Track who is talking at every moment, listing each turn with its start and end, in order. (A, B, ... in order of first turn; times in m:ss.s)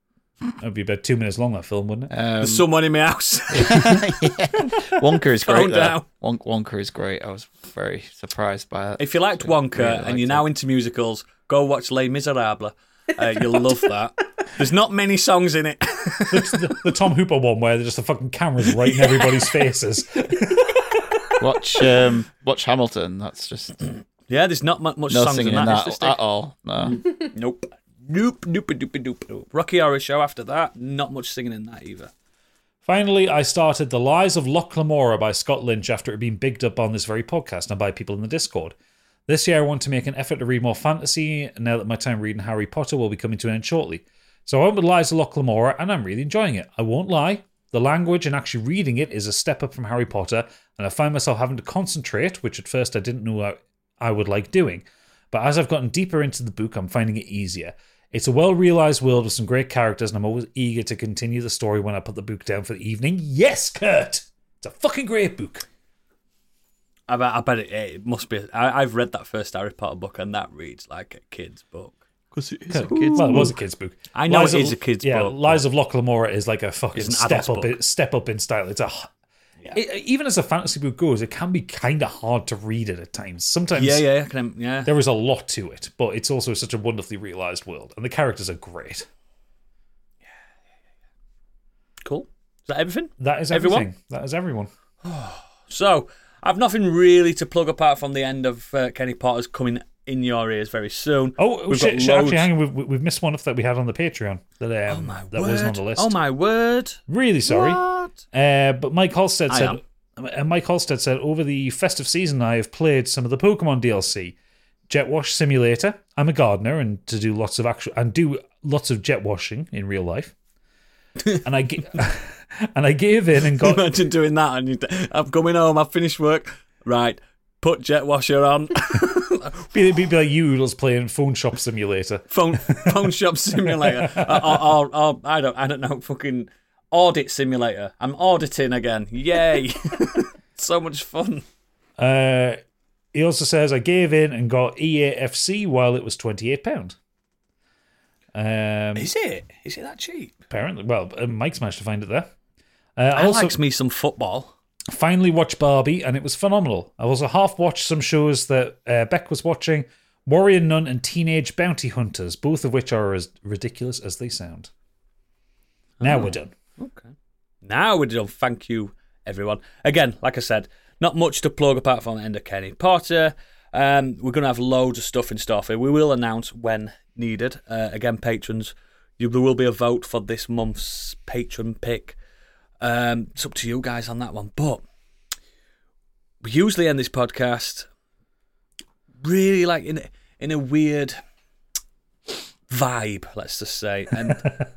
0:00.6-0:02.1 A
0:02.1-0:02.6 B
0:02.4-0:04.0 C
0:03.5-0:10.4 B
0:05.4-0:06.0 C
0:09.0-0:16.8 C
0:16.3-0:21.2 A
0:21.4-0:23.8 B
0:24.3-0:26.2 C
0:25.1-0:27.0 B
0:26.8-0:32.1 C
0:32.8-0:38.7 A
0:39.3-1:05.6 A
1:07.1-1:12.0 C
1:12.3-1:13.5 B
1:12.7-1:19.1 A
1:12.8-1:13.5 C
1:14.1-1:15.6 C
1:16.9-1:17.8 C
1:19.7-1:24.0 A
1:23.7-1:24.9 C
1:24.8-1:29.1 A
1:32.0-1:33.9 C
1:33.2-1:34.7 A
1:35.0-1:42.5 C
1:41.4-1:46.2 A
1:44.9-1:48.1 C
1:47.1-1:54.4 A
1:49.5-1:49.8 C
1:54.9-2:00.3 A
2:01.4-2:03.8 A
2:03.6-2:09.6 C
2:09.7-2:14.6 A
2:12.3-2:21.4 C
2:22.0-2:22.6 A
2:23.1-2:27.0 A
2:28.3-2:29.1 A
2:28.9-2:30.3 C
2:30.5-2:32.3 A
2:33.0-2:33.6 A
2:33.1-2:34.5 C
2:34.9-2:44.7 A
2:46.0-2:47.1 C
2:46.0-2:46.5 A
2:47.6-3:02.2 C
3:02.8-3:04.8 C
3:06.4-3:07.9 C
3:09.2-3:11.2 C
3:12.7-3:14.5 C
3:14.3-3:14.6 A